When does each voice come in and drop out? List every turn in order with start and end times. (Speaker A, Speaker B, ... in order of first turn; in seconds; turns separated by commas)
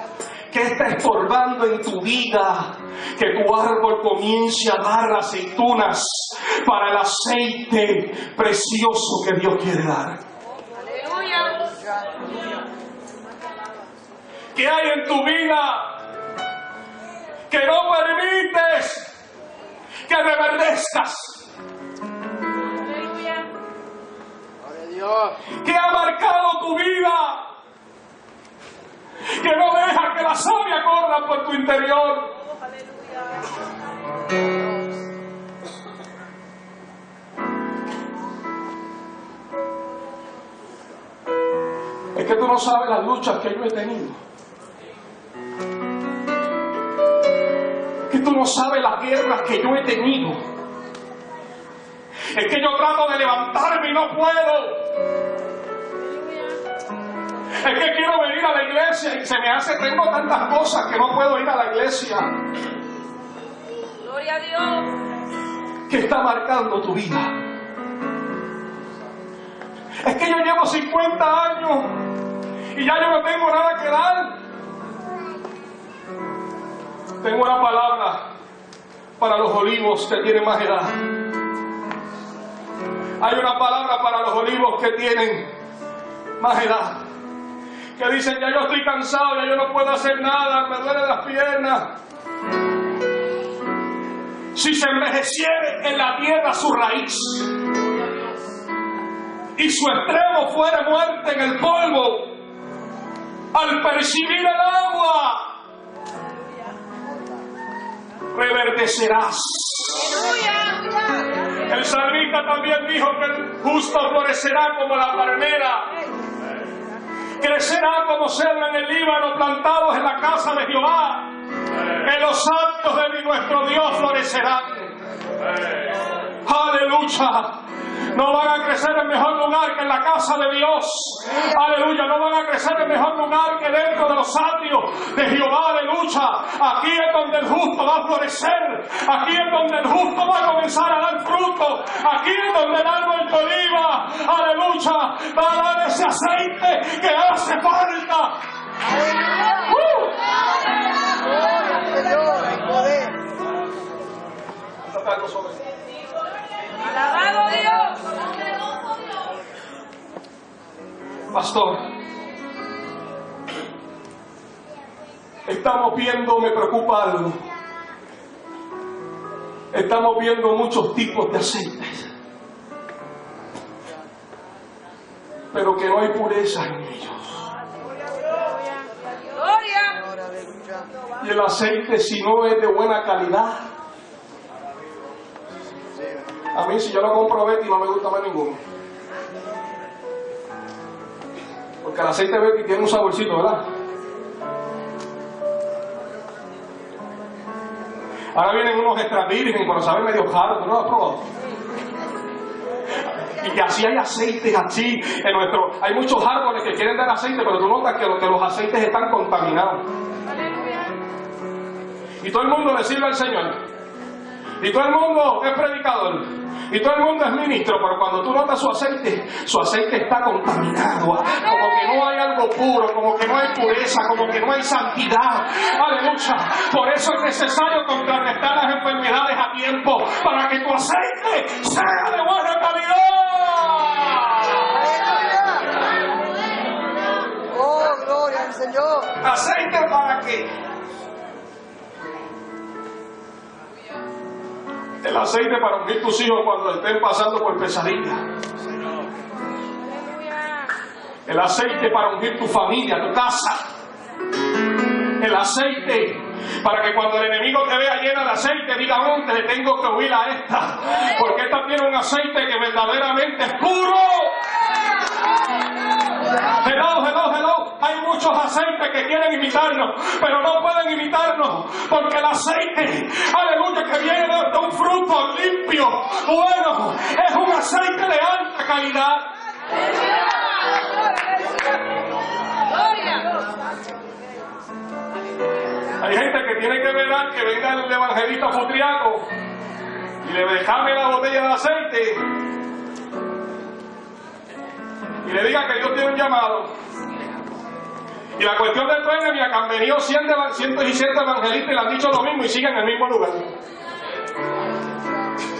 Speaker A: 0.5-10.2, Speaker B: 10.9-11.7, Speaker A: 14.5-15.9, Speaker A: 17.5-19.1, Speaker A: 20.1-21.5, Speaker A: 25.6-27.5, Speaker A: 29.3-32.3, Speaker A: 42.1-44.2, Speaker A: 48.1-50.4, Speaker A: 52.3-54.8, Speaker A: 57.6-62.3, Speaker B: 64.0-65.0, Speaker A: 65.9-67.3, Speaker A: 70.0-72.0, Speaker A: 72.7-74.3, Speaker A: 77.2-78.2, Speaker A: 79.2-81.0, Speaker A: 83.2-85.5, Speaker A: 86.4-87.0, Speaker A: 88.0-91.9, Speaker A: 94.5-97.5, Speaker A: 99.6-102.3, Speaker A: 103.5-105.5, Speaker A: 108.3-110.4, Speaker B: 110.3-111.3, Speaker A: 111.7-115.9, Speaker A: 117.4-121.3, Speaker A: 122.0-124.9, Speaker A: 126.4-148.3, Speaker A: 149.6-150.1, Speaker C: 151.4-153.2, Speaker A: 154.9-155.6, Speaker B: 156.8-158.0, Speaker A: 161.3-161.9, Speaker A: 165.5-167.4, Speaker A: 169.7-172.1, Speaker A: 175.5-177.5, Speaker B: 179.3-180.0, Speaker C: 180.3-180.7, Speaker A: 181.2-183.7, Speaker A: 186.5-188.6, Speaker A: 191.8-193.7, Speaker A: 198.3-201.3, Speaker A: 203.3-209.9, Speaker A: 212.2-213.6, Speaker A: 214.6-235.2, Speaker C: 235.0-235.7, Speaker C: 237.6-239.0, Speaker A: 239.1-240.5, Speaker A: 245.0-248.2, Speaker A: 251.3-253.7, Speaker A: 255.2-264.4, Speaker A: 266.6-279.3, Speaker B: 282.7-283.4, Speaker A: 286.0-289.3, Speaker A: 290.2-292.2, Speaker A: 295.2-296.7, Speaker A: 298.4-303.5